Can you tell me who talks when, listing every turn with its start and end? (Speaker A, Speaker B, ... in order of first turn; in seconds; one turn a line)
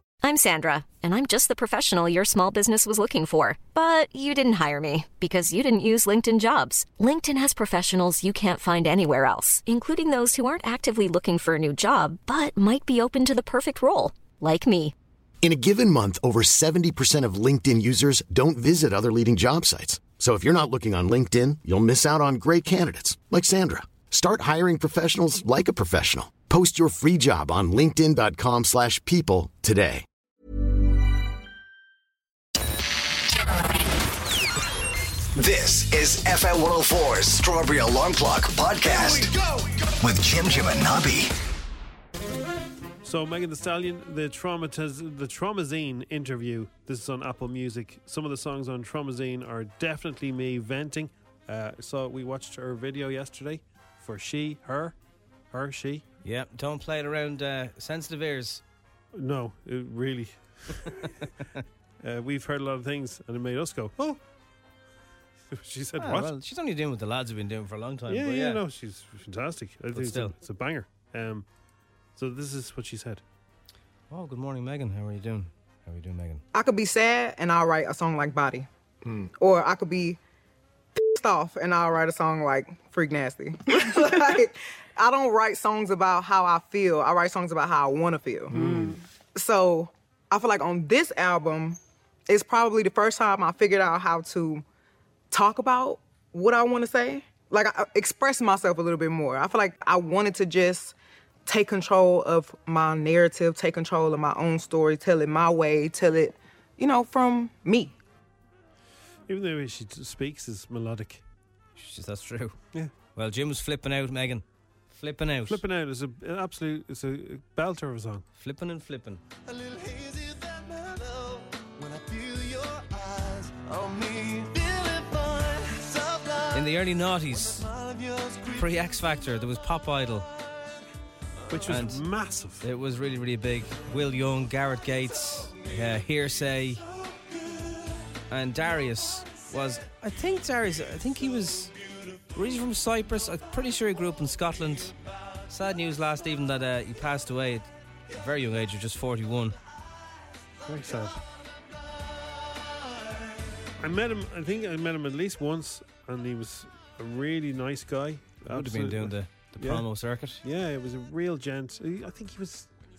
Speaker A: 0.2-14.9
Speaker B: 15.4-30.0
Speaker C: 35.4-39.3
Speaker C: 40.0-41.3
Speaker D: 43.0-55.0
Speaker D: 55.5-56.0
Speaker E: 56.2-58.6
Speaker D: 59.1-61.1
Speaker D: 62.0-64.2
Speaker D: 65.5-66.3
Speaker E: 66.0-68.6
Speaker D: 68.1-71.5
Speaker E: 69.9-70.3
Speaker D: 72.2-73.2
Speaker E: 74.1-76.4
Speaker F: 76.5-78.7
Speaker F: 79.4-80.2
Speaker F: 81.0-88.8
Speaker D: 88.6-89.0
Speaker F: 89.3-94.6
Speaker F: 95.3-100.9
Speaker F: 101.5-107.9
Speaker D: 109.3-111.2
Speaker E: 111.8-112.6
Speaker E: 113.2-115.6
Speaker D: 115.5-118.2
Speaker E: 118.4-119.2
Speaker D: 119.6-121.0
Speaker D: 122.0-122.8
Speaker D: 123.8-124.8
Speaker E: 126.5-127.7
Speaker E: 128.4-130.3
Speaker D: 131.5-132.6
Speaker E: 131.7-132.0
Speaker E: 132.6-136.8
Speaker E: 138.3-141.7
Speaker E: 142.3-144.9
Speaker E: 145.5-149.6
Speaker D: 150.7-151.2
Speaker D: 153.8-159.8
Speaker E: 158.5-160.4
Speaker D: 160.4-162.7